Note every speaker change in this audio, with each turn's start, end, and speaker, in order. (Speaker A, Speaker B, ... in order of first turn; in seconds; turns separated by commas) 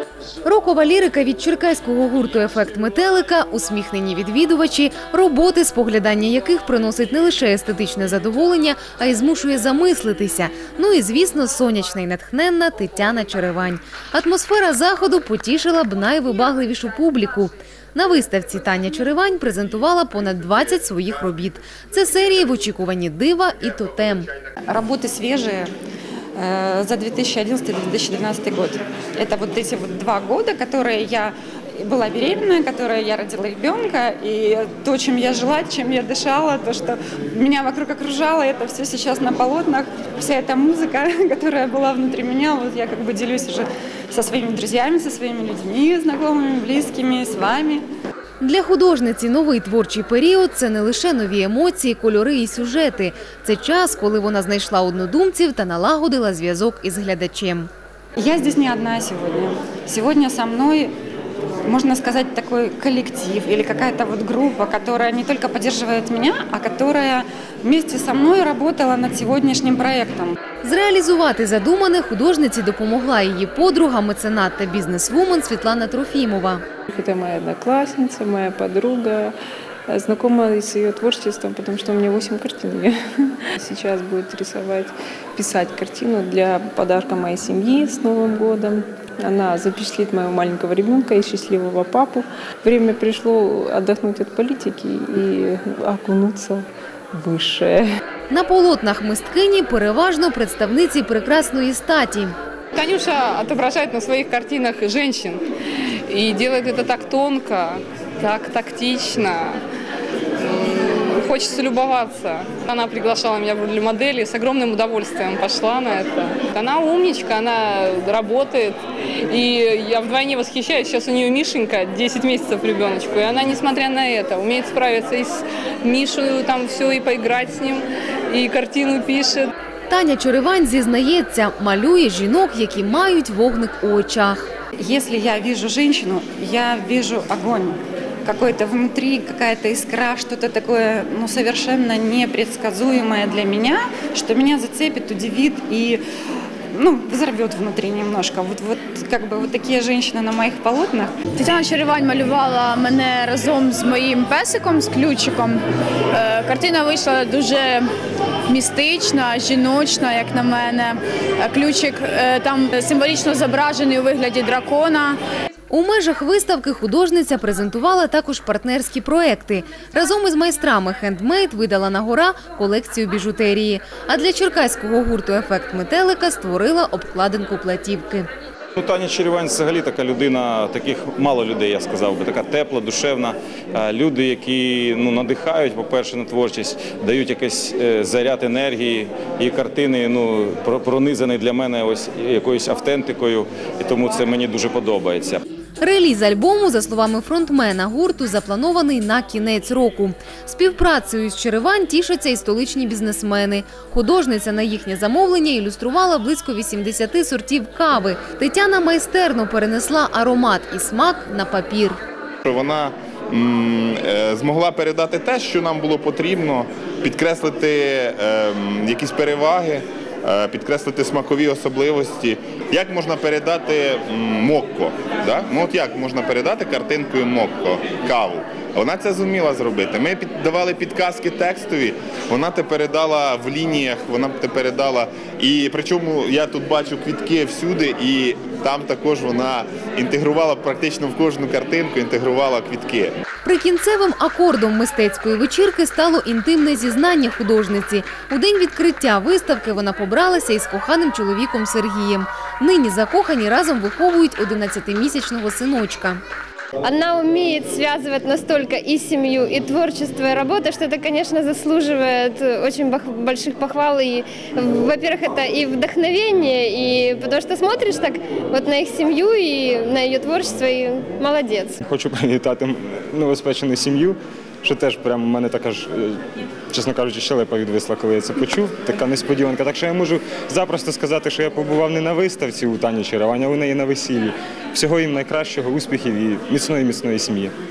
Speaker A: 0.5-24.3, Speaker B: 24.7-25.7, Speaker B: 26.4-47.8, Speaker A: 48.4-57.7, Speaker B: 58.2-60.9, Speaker B: 61.7-70.4, Speaker A: 70.6-76.6, Speaker C: 76.9-79.3, Speaker C: 79.9-97.9, Speaker A: 98.3-102.3, Speaker D: 102.8-105.4, Speaker D: 106.1-109.6, Speaker D: 110.4-118.8, Speaker D: 119.3-129.5, Speaker A: 129.9-134.4, Speaker B: 134.8-146.0, Speaker B: 146.7-151.2, Speaker E: 151.4-155.6, Speaker E: 156.2-157.8, Speaker E: 158.5-165.2, Speaker A: 165.7-178.3, Speaker F: 178.8-195.4, Speaker A: 195.8-212.0, Speaker G: 212.4-243.2, Speaker A: 243.4-256.2, Speaker H: 256.8-271.8, Speaker I: 271.8-276.2, Speaker I: 276.7-287.5